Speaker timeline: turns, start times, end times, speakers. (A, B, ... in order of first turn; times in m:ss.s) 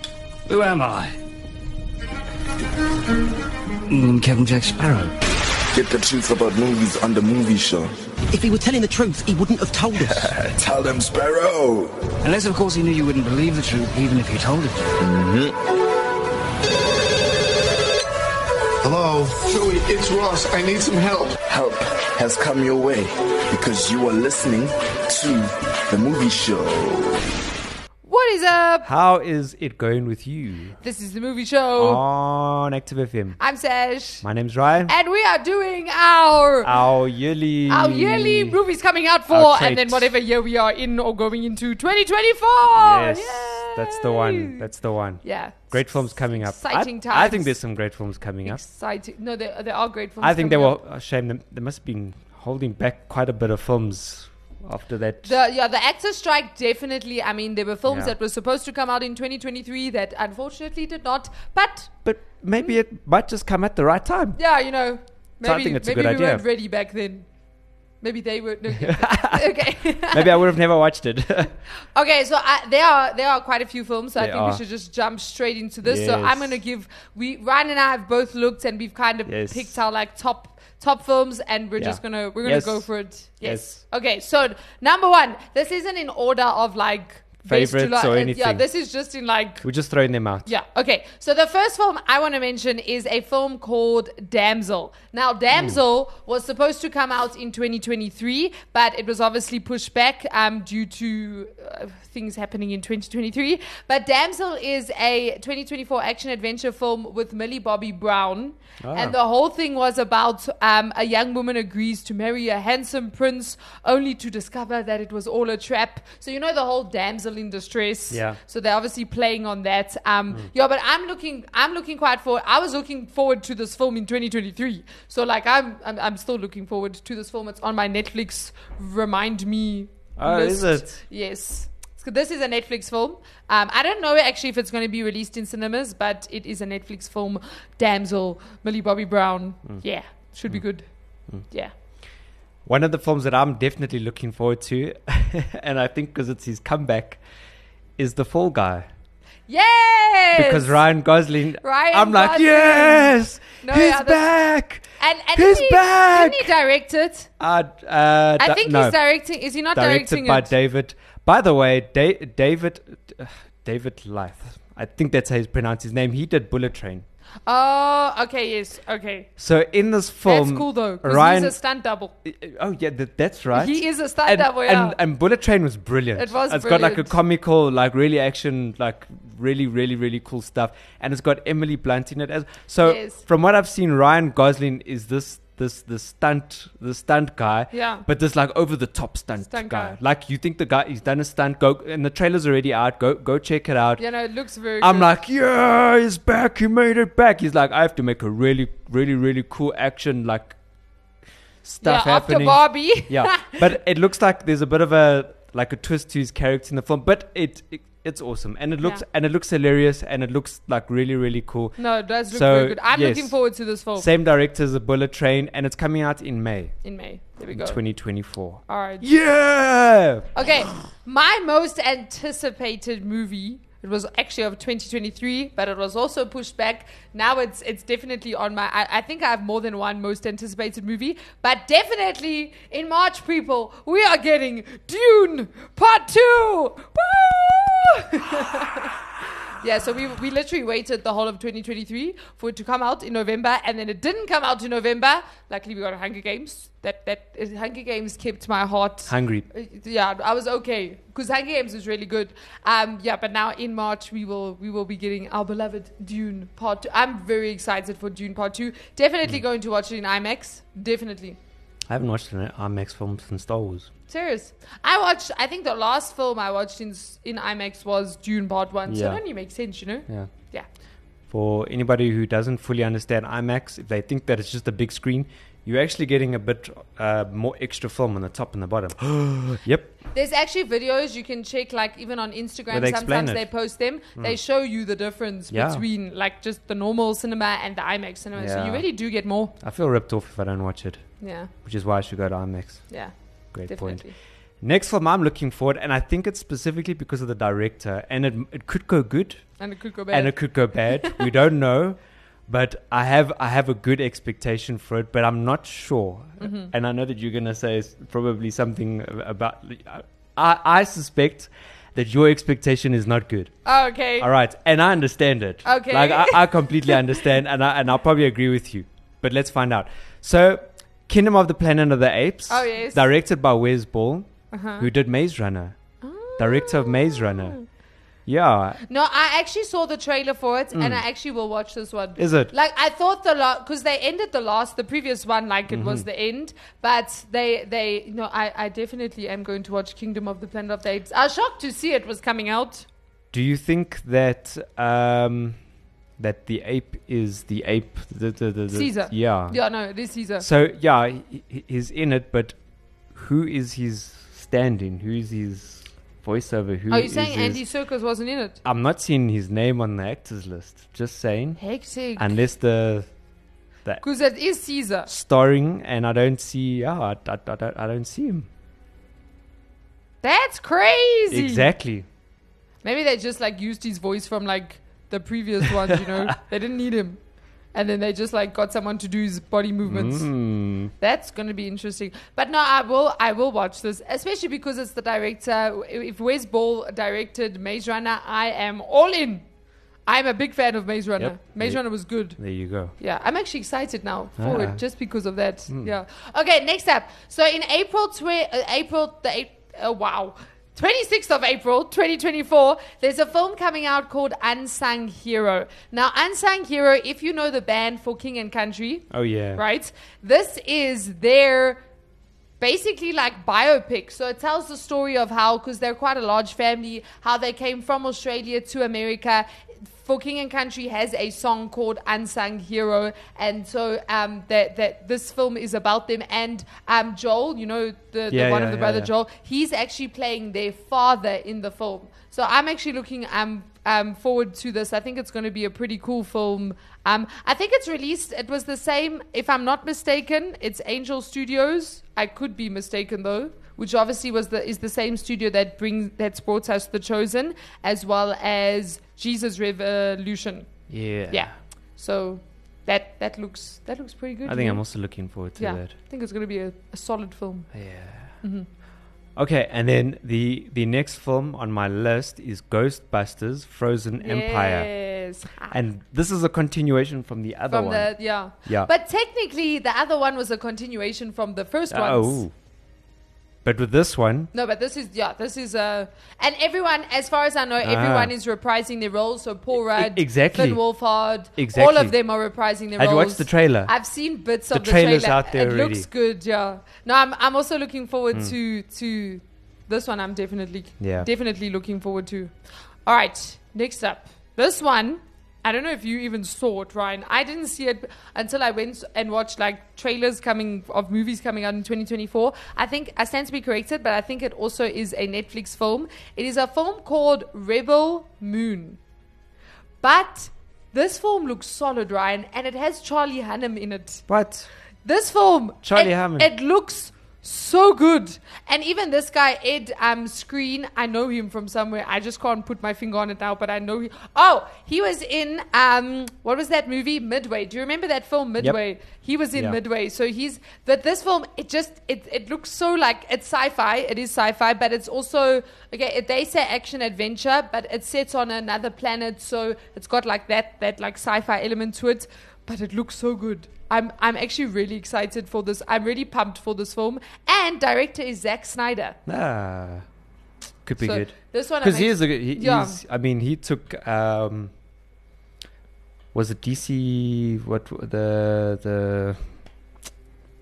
0:00.5-0:01.2 A
0:03.9-0:05.1 A
0:05.7-0:08.0 B
0:08.3-0:10.3 C
0:10.1-0:12.0 B
0:12.2-0:15.0 A
0:15.0-0:15.6 B
0:18.8-0:21.4 D
0:21.5-0:27.2 B
0:28.0-0:28.9 E
0:28.8-0:30.8 F
0:30.8-0:32.0 E
0:31.8-0:33.4 F
0:33.4-0:34.2 E
0:34.2-0:34.9 F
0:34.9-0:36.7 E
0:36.6-0:38.6 F
0:37.7-0:44.6 E
0:39.3-0:40.1 F
0:42.7-0:48.6 F
0:45.2-0:47.5 E
0:48.4-0:50.8 E
0:50.2-0:55.4 F
0:55.2-1:01.9 E
0:57.9-0:58.1 F
1:02.0-1:04.4 F
1:04.4-1:07.3 E
1:05.4-1:06.4 F
1:08.0-1:10.4 E
1:08.7-1:11.6 F
1:11.9-1:29.6 E
1:14.2-1:14.6 F
1:15.8-1:16.6 F
1:19.3-1:19.7 F
1:21.8-1:22.9 F
1:23.4-1:23.8 F
1:27.5-1:28.6 F
1:29.6-1:30.5 F
1:30.5-2:20.9 E
1:48.8-1:49.2 F
1:58.1-1:58.4 F
2:10.2-2:11.0 F
2:21.5-2:21.7 E
2:22.7-2:27.2 F
2:28.0-2:28.9 F
2:29.5-2:30.8 E
2:30.4-2:36.5 F
2:31.6-2:34.3 E
2:35.0-2:37.3 E
2:37.4-2:39.0 F
2:38.4-2:40.5 E
2:39.7-2:47.0 F
2:47.5-2:49.3 E
2:49.4-2:51.6 F
2:50.2-2:52.1 E
2:52.2-3:14.0 F
2:53.6-2:55.0 E
2:56.2-2:57.1 E
3:02.8-3:03.2 E
3:07.7-3:08.0 E
3:09.5-3:10.0 E
3:14.0-3:15.1 E
3:14.8-3:20.6 F
3:21.6-3:36.8 F
3:21.8-3:23.6 E
3:31.8-3:34.1 E
3:36.8-3:37.8 E
3:37.5-3:40.3 F
3:38.7-3:39.1 E
3:40.4-4:21.4 E
4:09.1-4:09.5 F
4:21.9-4:23.9 F
4:24.1-4:30.7 E
4:28.9-4:29.2 F
4:31.3-4:40.0 F
4:40.1-4:49.5 E
4:42.7-4:43.5 F
4:45.5-4:45.8 F
4:48.4-4:48.9 F
4:49.6-4:51.0 F
4:51.2-4:51.5 E
4:51.6-4:52.9 F
4:53.5-4:54.0 F
4:53.7-4:54.1 E
4:54.6-4:59.5 F
4:59.6-5:00.4 E
5:00.1-5:13.6 F
5:01.0-5:01.3 E
5:06.4-5:06.7 E
5:13.6-5:14.3 E
5:14.2-5:25.8 F
5:15.6-5:17.1 E
5:22.5-5:23.0 E
5:24.5-5:24.9 E
5:26.0-5:27.6 E
5:26.4-5:27.6 F
5:28.3-5:28.8 F
5:28.9-5:42.9 E
5:30.7-5:31.0 F
5:32.2-5:32.5 F
5:35.7-5:36.1 F
5:43.3-5:45.6 F
5:46.2-5:49.6 F
5:48.7-5:50.5 E
5:50.4-5:52.6 F
5:53.1-5:57.6 F
5:56.9-5:58.6 E
5:58.6-6:01.6 F
6:01.6-6:02.3 E
6:02.2-6:03.1 F
6:04.0-6:05.1 E
6:05.1-6:08.5 F
6:10.2-6:11.7 E
6:11.3-6:12.1 F
6:12.8-6:17.2 E
6:15.7-6:16.3 F
6:17.7-6:20.3 E
6:19.8-6:20.9 F
6:21.0-6:29.4 E
6:30.1-6:32.4 E
6:31.2-6:32.9 F
6:33.0-6:51.8 E
6:34.4-6:34.8 F
6:35.7-6:35.9 F
6:49.1-6:49.6 F
6:52.6-7:34.8 E
7:08.3-7:09.1 F
7:30.9-7:31.6 F
7:34.5-7:36.0 F
7:35.6-7:37.7 E
7:37.7-7:38.4 F
7:38.4-7:38.7 E
7:39.4-7:44.9 F
7:44.2-7:45.8 E
7:45.7-7:48.9 F
7:47.7-7:52.4 E
7:51.9-7:52.5 F
7:53.6-7:54.5 F
7:54.5-8:12.5 E
7:57.8-7:58.3 F
7:59.7-8:00.8 F
8:01.6-8:02.2 F
8:03.0-8:03.9 F
8:04.7-8:06.1 F
8:11.0-8:11.3 F
8:13.1-8:29.0 E
8:30.0-8:34.3 E
8:34.3-8:34.7 F
8:35.0-9:09.2 E
8:35.8-8:36.5 F
9:09.3-9:10.0 F
9:10.8-9:14.7 F
9:11.0-9:13.0 E
9:16.3-9:19.4 F